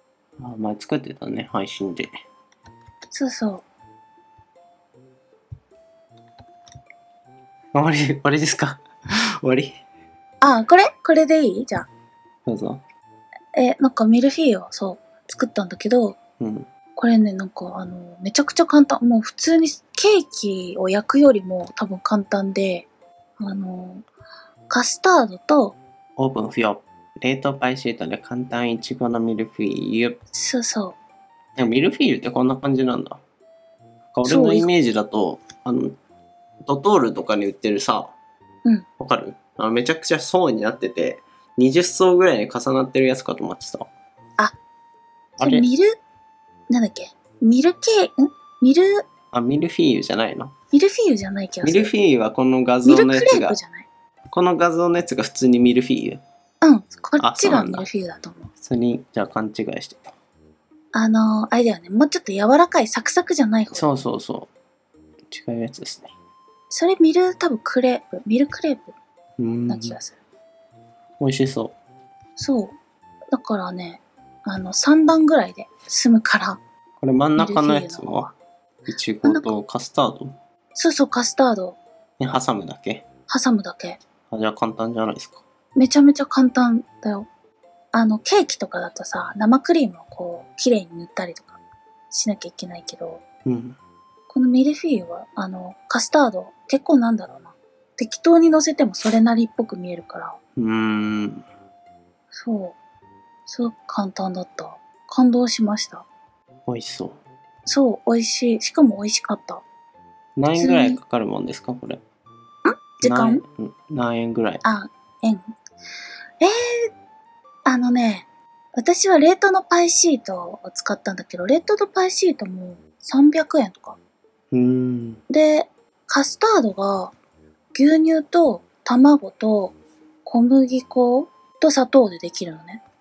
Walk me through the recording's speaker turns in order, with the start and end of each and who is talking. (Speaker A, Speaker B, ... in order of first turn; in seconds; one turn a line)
Speaker A: 0.4-2.1
Speaker B: 3.1-3.6
Speaker A: 7.7-8.8
Speaker A: 9.4-9.8
Speaker B: 10.4-11.9
Speaker A: 12.4-12.8
Speaker B: 13.5-16.2
Speaker A: 16.4-16.7
Speaker B: 16.9-22.9
Speaker B: 23.4-24.0
Speaker B: 24.7-25.8
Speaker A: 26.2-30.2
Speaker B: 30.3-31.0
Speaker A: 31.6-33.2
Speaker A: 34.1-36.0
Speaker B: 34.2-34.7
Speaker A: 36.6-38.1
Speaker A: 39.0-43.9
Speaker B: 45.4-46.0
Speaker A: 45.4-45.7
Speaker B: 46.7-49.0
Speaker A: 49.3-50.5
Speaker B: 50.7-51.9
Speaker A: 51.6-53.6
Speaker B: 52.8-53.9
Speaker A: 54.3-56.2
Speaker B: 56.6-58.5
Speaker A: 57.2-57.9
Speaker A: 58.6-60.1
Speaker B: 60.9-64.0
Speaker A: 63.7-64.5
Speaker A: 65.3-66.1
Speaker B: 66.7-68.9
Speaker A: 69.4-70.0
Speaker B: 69.7-70.2
Speaker A: 71.2-71.7
Speaker B: 72.4-72.8
Speaker B: 73.3-76.6
Speaker A: 77.0-78.3
Speaker B: 77.3-78.3
Speaker A: 78.9-80.3
Speaker B: 79.2-79.5
Speaker B: 80.7-81.8
Speaker A: 82.2-83.0
Speaker B: 83.3-84.0
Speaker A: 84.3-85.4
Speaker B: 85.8-87.3
Speaker B: 87.9-91.6
Speaker B: 92.1-93.2
Speaker A: 93.4-93.8
Speaker B: 94.3-100.4
Speaker A: 100.6-101.4
Speaker B: 102.4-102.8
Speaker B: 103.5-106.0
Speaker A: 106.7-107.2
Speaker B: 107.7-109.6
Speaker A: 110.3-112.0
Speaker B: 110.5-111.0
Speaker B: 112.7-113.4
Speaker A: 113.0-114.6
Speaker B: 114.6-115.5
Speaker B: 117.7-124.0
Speaker A: 124.5-125.2
Speaker B: 125.3-127.1
Speaker B: 127.7-132.8